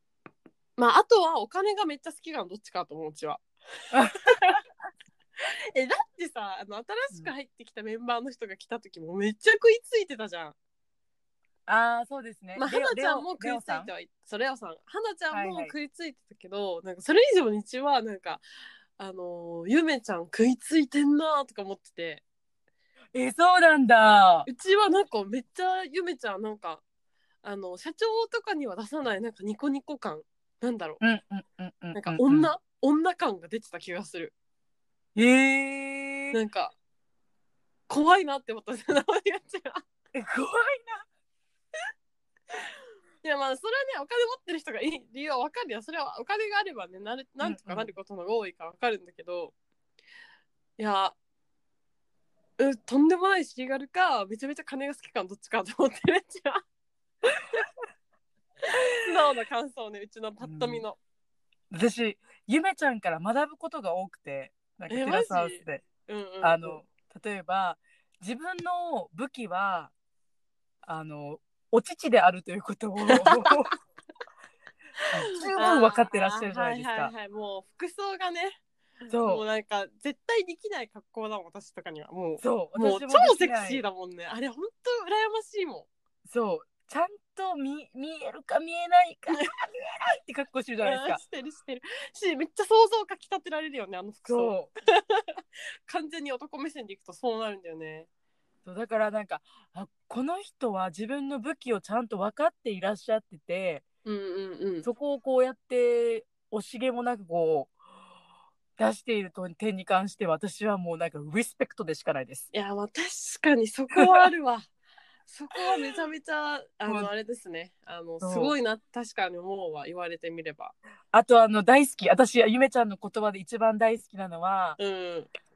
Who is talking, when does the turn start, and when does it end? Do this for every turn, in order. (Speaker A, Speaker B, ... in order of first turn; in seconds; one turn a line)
Speaker A: 0.8-3.4
Speaker B: 3.9-4.6
Speaker A: 4.2-4.6
Speaker A: 5.4-10.5
Speaker B: 11.7-13.9
Speaker A: 12.6-18.4
Speaker B: 15.3-15.7
Speaker A: 19.0-22.2
Speaker B: 23.1-24.5
Speaker A: 24.5-26.8
Speaker A: 27.4-31.0
Speaker B: 31.0-32.5
Speaker A: 31.9-34.3
Speaker B: 35.1-36.4
Speaker A: 36.3-36.7
Speaker A: 37.9-39.8
Speaker B: 40.1-41.0
Speaker A: 43.2-49.5
Speaker B: 47.4-47.9
Speaker A: 50.8-51.1
Speaker A: 52.6-56.6
Speaker A: 58.7-61.0
Speaker B: 60.4-60.8
Speaker B: 61.7-65.8
Speaker A: 64.9-66.8
Speaker B: 66.4-69.9
Speaker B: 70.8-73.7
Speaker A: 73.1-73.6
Speaker B: 75.1-77.1
Speaker A: 75.2-78.6
Speaker B: 79.1-79.4
Speaker A: 79.2-85.9
Speaker B: 82.4-83.8
Speaker B: 86.3-91.2
Speaker A: 90.8-98.1
Speaker B: 94.3-94.7
Speaker B: 98.6-103.8
Speaker A: 104.0-104.8
Speaker B: 104.8-107.7
Speaker B: 108.8-112.5
Speaker A: 112.5-114.7
Speaker B: 113.9-114.2
Speaker A: 115.3-120.8
Speaker B: 118.2-118.5
Speaker B: 121.1-124.8
Speaker A: 124.8-125.3